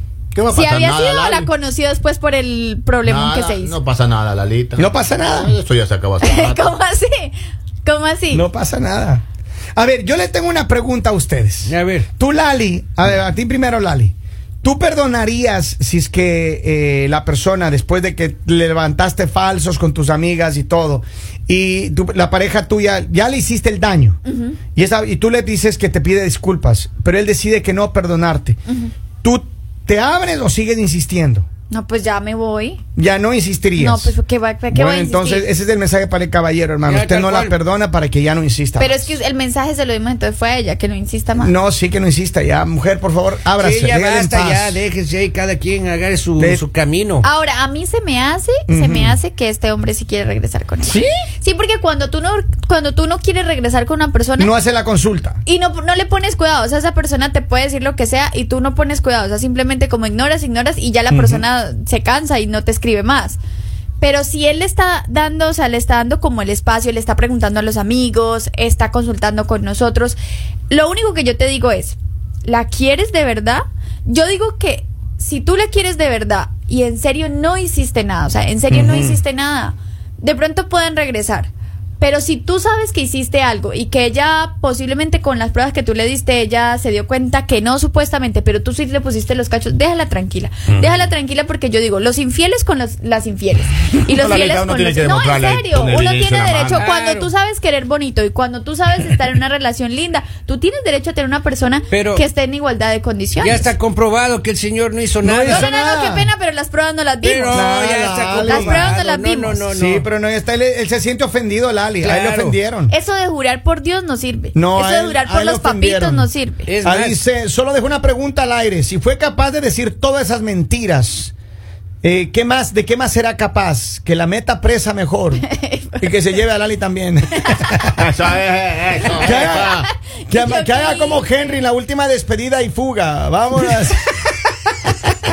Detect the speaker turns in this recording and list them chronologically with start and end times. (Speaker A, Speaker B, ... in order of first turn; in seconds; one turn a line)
Speaker A: 0.3-1.5
Speaker B: 0.5-3.8
Speaker A: 3.0-6.8
Speaker C: 4.8-5.5
Speaker B: 6.2-8.4
Speaker C: 8.3-9.2
Speaker C: 9.8-24.2
Speaker D: 11.6-12.1
Speaker B: 24.2-24.6
Speaker C: 24.7-28.6
Speaker B: 28.7-28.9
Speaker C: 29.2-31.4
Speaker B: 31.7-32.8
Speaker C: 33.0-34.1
Speaker B: 33.8-35.5
Speaker C: 34.7-39.0
Speaker D: 36.8-37.5
Speaker B: 38.8-41.5
Speaker C: 41.4-44.8
Speaker D: 43.6-47.2
Speaker C: 46.4-46.6
Speaker B: 47.2-54.5
Speaker C: 48.7-49.2
Speaker C: 50.8-51.1
Speaker C: 54.4-55.4
Speaker B: 55.5-63.4
Speaker C: 61.1-61.4
Speaker B: 64.0-70.2
Speaker B: 70.7-103.7
Speaker C: 78.7-79.2
Speaker A: 94.1-96.8
Speaker D: 96.7-97.3
Speaker D: 101.9-102.2
Speaker D: 103.4-105.7
Speaker C: 105.2-106.3
Speaker B: 105.4-107.7
Speaker D: 107.2-110.1
Speaker C: 107.5-108.9
Speaker B: 108.5-109.7
Speaker C: 109.7-112.9
Speaker D: 112.0-112.6
Speaker B: 112.9-116.6
Speaker C: 114.5-116.3
Speaker D: 116.7-117.2
Speaker C: 116.8-121.3
Speaker C: 122.0-125.4
Speaker B: 125.4-126.1
Speaker C: 126.0-128.0
Speaker A: 127.9-129.9
Speaker C: 129.2-134.3
Speaker B: 129.4-131.2